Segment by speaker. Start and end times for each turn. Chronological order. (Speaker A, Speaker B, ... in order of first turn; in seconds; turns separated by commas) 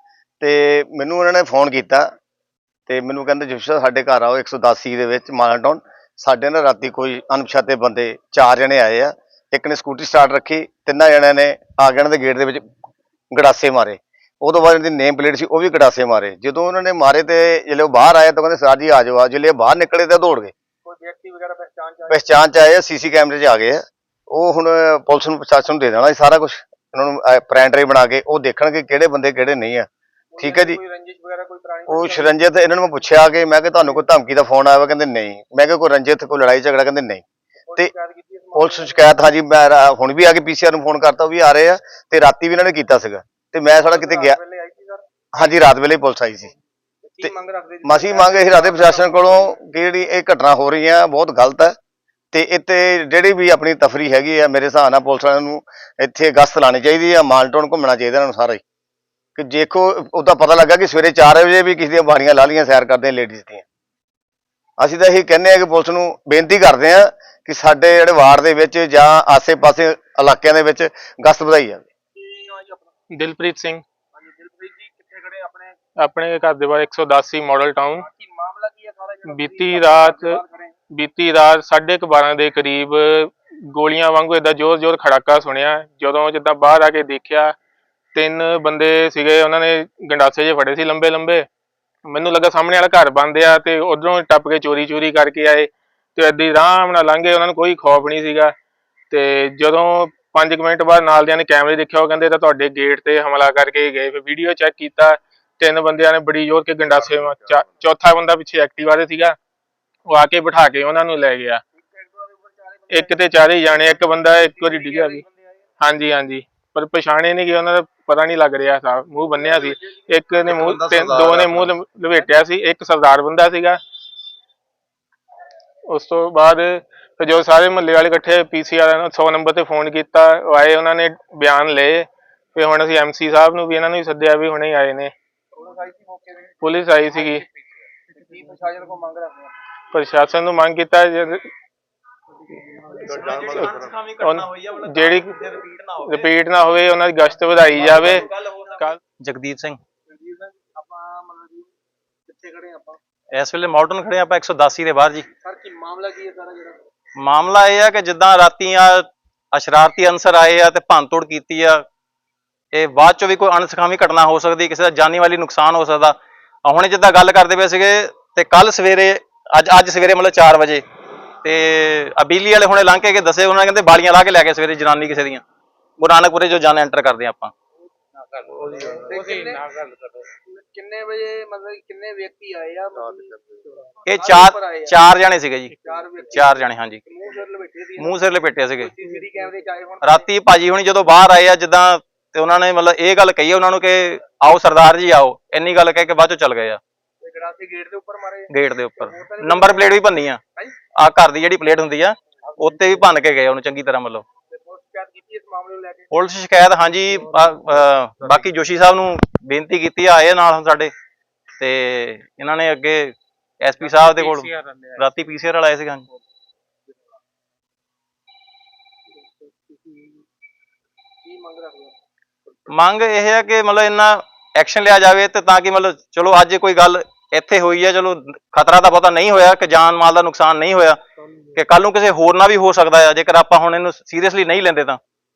Speaker A: 0.4-2.1, Speaker A: 2.9-12.6, Speaker A: 13.3-20.5, Speaker B: 20.8-22.4, Speaker A: 22.1-30.8, Speaker B: 30.4-32.4, Speaker A: 31.9-37.2, Speaker B: 37.7-39.1, Speaker A: 38.5-44.4, Speaker B: 43.7-45.0, Speaker A: 45.4-46.5, Speaker B: 47.0-49.5, Speaker A: 47.8-51.8, Speaker A: 52.3-58.6, Speaker A: 59.4-63.6, Speaker A: 64.8-71.8, Speaker B: 72.2-72.9, Speaker C: 73.1-73.8, Speaker B: 74.1-75.8, Speaker C: 76.0-78.0, Speaker B: 77.9-80.8, Speaker C: 79.2-80.4, Speaker C: 80.9-87.5, Speaker C: 88.1-91.5, Speaker C: 92.0-98.5, Speaker C: 99.1-109.3, Speaker C: 110.1-111.6, Speaker B: 111.7-115.6, Speaker C: 112.9-115.2, Speaker C: 115.8-123.8, Speaker B: 119.3-121.2, Speaker A: 121.1-121.5, Speaker C: 125.9-135.1, Speaker B: 135.5-139.5, Speaker C: 136.6-137.4, Speaker C: 139.9-141.4, Speaker D: 143.0-146.3, Speaker C: 143.1-145.4, Speaker C: 146.0-148.2, Speaker D: 147.7-149.8, Speaker B: 150.1-151.7, Speaker B: 152.3-153.0, Speaker D: 153.3-155.3, Speaker B: 155.4-156.8, Speaker D: 157.2-161.8, Speaker D: 162.7-170.8, Speaker D: 171.4-175.4, Speaker D: 176.0-177.5, Speaker B: 178.9-179.7, Speaker B: 180.4-184.9, Speaker D: 184.1-185.8, Speaker B: 185.8-190.3, Speaker D: 186.3-187.0, Speaker D: 188.0-188.9, Speaker D: 190.0-196.8, Speaker B: 197.2-200.7, Speaker D: 198.5-200.4, Speaker D: 200.9-204.2, Speaker B: 204.5-206.2, Speaker D: 206.1-210.9, Speaker D: 211.6-216.1, Speaker B: 221.2-222.0, Speaker D: 222.7-231.0, Speaker D: 231.5-235.0